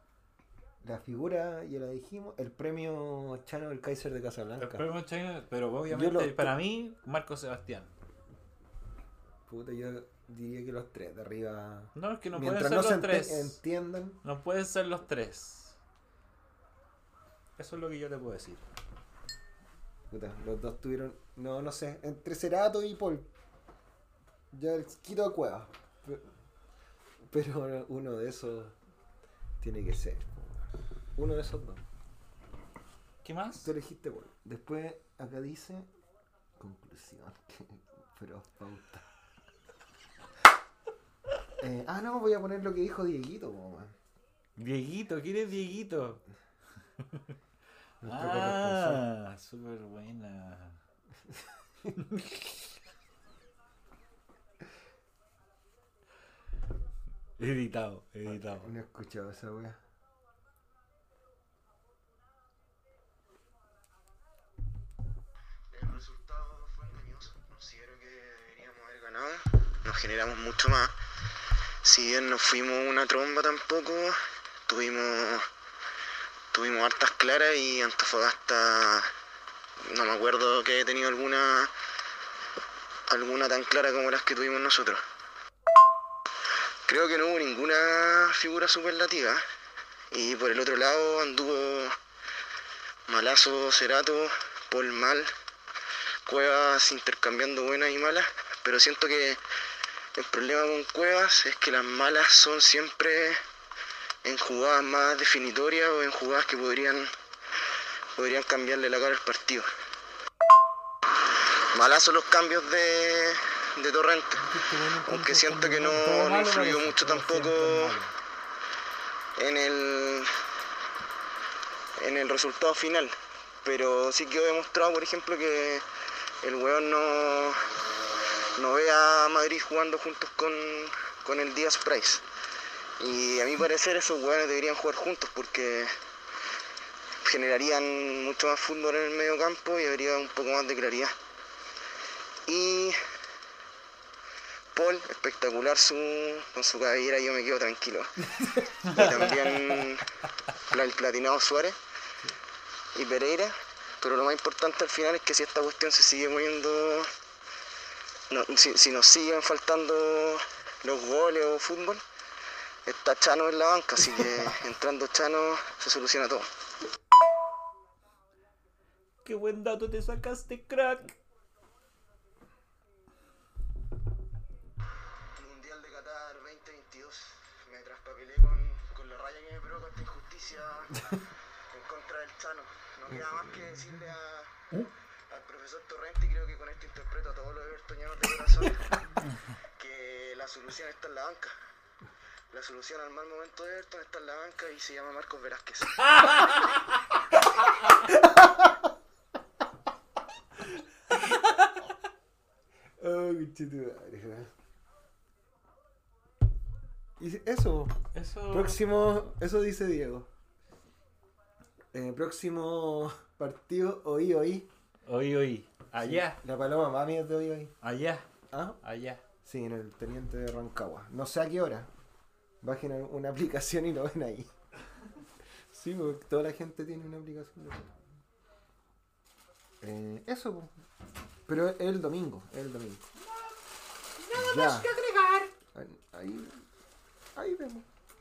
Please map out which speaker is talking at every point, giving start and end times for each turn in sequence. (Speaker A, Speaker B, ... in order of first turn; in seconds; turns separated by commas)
Speaker A: 0.8-4.9, Speaker B: 4.6-7.9, Speaker A: 5.9-6.5, Speaker A: 9.5-14.2, Speaker B: 11.9-13.6, Speaker B: 14.2-15.8, Speaker B: 17.6-18.6, Speaker A: 20.1-23.3, Speaker A: 24.5-26.3, Speaker A: 27.2-28.8, Speaker A: 29.6-31.8, Speaker B: 33.2-33.7, Speaker A: 33.6-35.9, Speaker A: 36.6-39.0, Speaker A: 41.6-44.0, Speaker B: 44.6-46.2, Speaker B: 47.0-47.3, Speaker A: 48.0-49.0, Speaker B: 48.0-50.8, Speaker B: 52.0-52.6, Speaker B: 57.4-58.7, Speaker A: 58.3-59.8, Speaker C: 65.7-71.0, Speaker C: 71.8-75.5, Speaker C: 76.5-79.1, Speaker C: 79.8-81.7, Speaker C: 83.1-85.0, Speaker C: 86.9-89.4, Speaker C: 90.1-92.0, Speaker C: 93.1-95.3, Speaker C: 96.3-99.4, Speaker C: 100.2-103.4, Speaker C: 104.2-107.1, Speaker C: 108.2-109.7, Speaker C: 111.7-118.0, Speaker B: 114.4-118.1, Speaker C: 119.4-120.3, Speaker C: 122.0-125.9, Speaker C: 126.4-127.8, Speaker C: 128.6-132.2, Speaker C: 133.0-135.9, Speaker C: 137.2-141.1, Speaker C: 142.5-143.0, Speaker C: 144.7-150.1, Speaker B: 148.8-149.8, Speaker C: 150.6-151.8, Speaker C: 152.9-157.1, Speaker C: 158.3-162.0, Speaker C: 162.9-166.5, Speaker B: 169.2-171.2, Speaker C: 175.4-184.7, Speaker A: 183.1-183.4, Speaker C: 185.3-189.1, Speaker C: 189.6-191.5, Speaker C: 192.5-196.4, Speaker A: 198.1-198.8, Speaker A: 203.0-204.5, Speaker A: 207.2-210.3, Speaker B: 208.1-208.8, Speaker A: 211.9-214.7, Speaker B: 215.1-216.4, Speaker A: 216.0-217.7, Speaker B: 217.8-218.3, Speaker A: 218.5-218.8, Speaker B: 218.8-219.2, Speaker A: 219.4-221.9, Speaker A: 222.6-224.6, Speaker A: 225.7-227.9, Speaker A: 229.8-230.7, Speaker A: 231.5-233.1, Speaker B: 234.2-235.5, Speaker A: 234.3-234.9, Speaker A: 235.7-236.7, Speaker A: 237.3-237.9